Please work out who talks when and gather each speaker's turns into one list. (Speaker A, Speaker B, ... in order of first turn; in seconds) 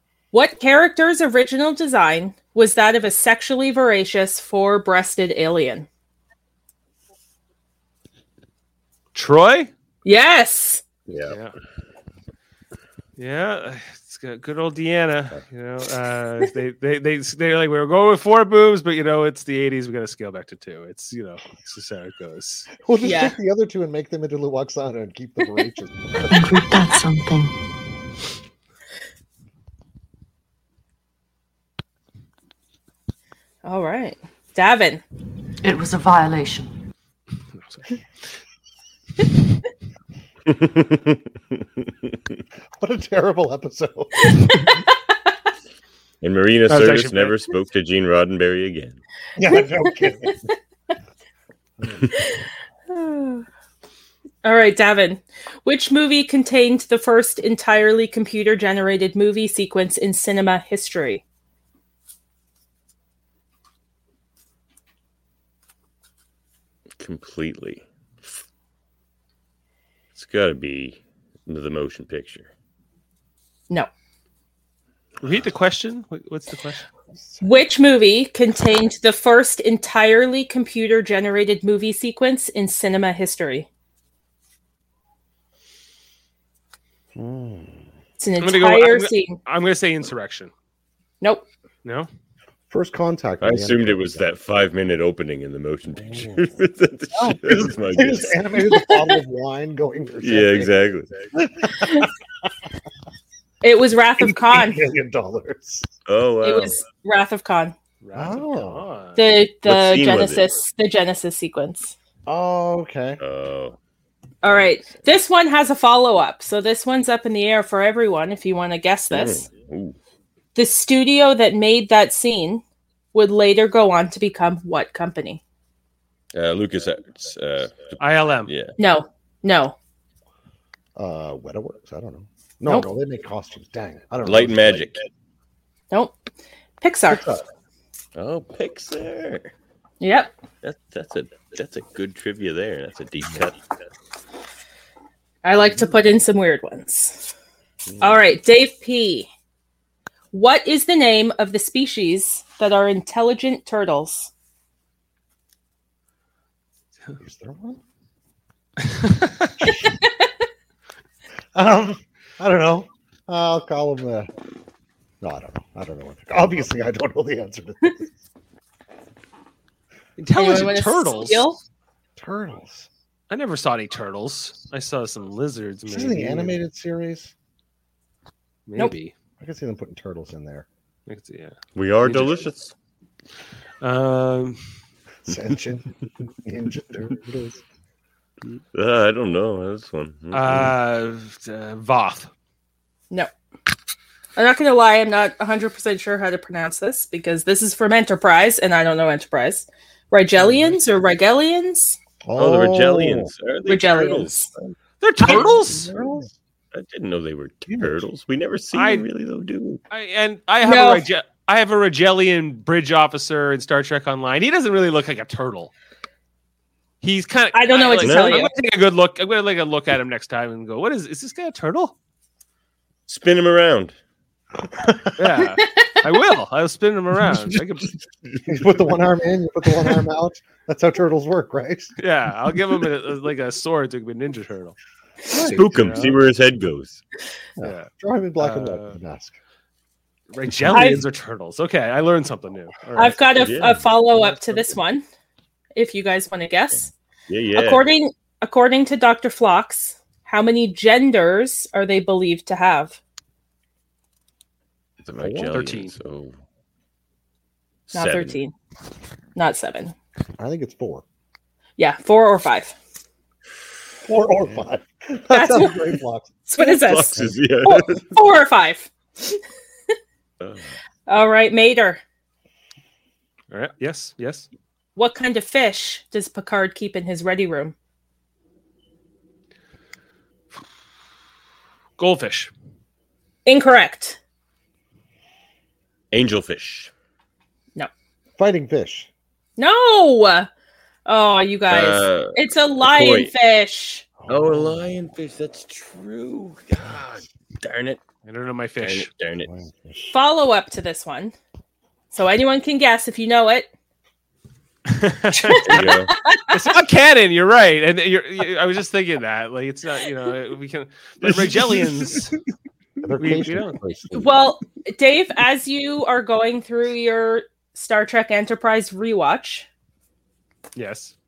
Speaker A: 0.3-5.9, 10.0-10.8, 23.0-23.3, 33.6-35.0, 44.3-44.7, 52.1-53.4, 54.4-61.2, 77.4-83.7, 88.2-89.4, 98.7-99.0, 103.6-104.8, 106.4-107.7, 109.2-111.9, 114.4-119.5, 120.5-122.6, 123.1-125.4, 128.8-129.7, 136.8-137.3, 140.0-140.3, 145.4-147.3, 148.0-149.3, 150.3-154.3, 170.3-171.6, 194.3-202.0, 203.7-204.5, 210.6-211.0, 217.5-218.5, 240.7-241.0, 242.9-245.0, 245.7-246.9, 247.5-253.0, 257.9-258.5, 259.4-259.9, 261.8-262.8, 265.3-269.4, 271.1-272.0, 274.9-277.7, 283.4-284.2, 289.6-290.5, 291.1-294.1, 300.1-301.3, 302.1-303.7, 305.3-306.4, 314.1-319.7
Speaker B: 9.1-9.7, 11.3-11.5, 13.2-22.7, 37.6-37.9, 46.7-47.4, 75.2-76.8, 88.4-90.5, 91.8-92.1, 108.0-109.2, 128.0-128.5, 158.8-159.5, 170.2-171.4, 173.3-176.6, 178.7-179.1, 181.1-182.4, 183.8-184.6, 190.3-192.3, 205.0-205.9, 208.7-209.1, 209.9-215.7, 217.0-221.9, 225.2-227.9, 232.0-234.7, 235.3-236.2, 237.6-239.0, 240.3-243.2, 255.5-255.9, 273.5-274.5, 282.0-282.5, 298.2-299.1, 304.9-312.4, 313.2-313.8, 320.8-321.1
Speaker C: 11.1-11.4, 40.5-42.2, 46.2-49.0, 67.0-67.8, 70.1-72.5, 93.4-98.4, 100.2-101.2, 106.0-106.8, 109.6-110.5, 113.2-113.8, 114.4-115.0, 119.1-120.0, 126.3-128.7, 134.2-135.1, 138.1-139.5, 140.6-143.6, 147.8-148.2, 181.7-182.7, 188.7-190.7, 202.4-204.7, 206.7-209.8, 218.0-218.5, 223.1-223.9, 235.3-237.0, 243.3-243.8, 247.3-247.9, 255.0-256.3, 257.9-258.4, 266.6-268.2, 270.4-270.7, 286.1-286.9, 291.7-293.3, 294.3-298.0, 298.8-299.5, 305.6-306.1
Speaker D: 22.8-26.3, 42.8-44.6, 49.4-50.5, 51.8-52.1, 77.1-77.5, 87.1-87.9, 92.7-94.3, 96.0-96.5, 97.1-100.8, 101.3-102.5, 104.2-105.9, 108.1-108.9, 112.2-113.2, 130.9-134.9, 137.1-137.4, 157.2-157.8, 159.6-159.9, 161.5-164.3, 165.2-168.1, 172.2-172.9, 175.9-177.3, 179.4-180.7, 185.3-187.6, 200.4-200.8, 202.2-203.3, 205.2-206.3, 207.7-208.0, 224.7-225.4, 228.5-231.9, 235.3-236.0, 237.6-239.3, 255.2-255.6, 260.4-261.0, 264.0-266.3, 288.4-289.1, 294.2-294.8, 299.4-300.2, 313.0-314.4
Speaker E: 26.3-27.5, 35.6-36.7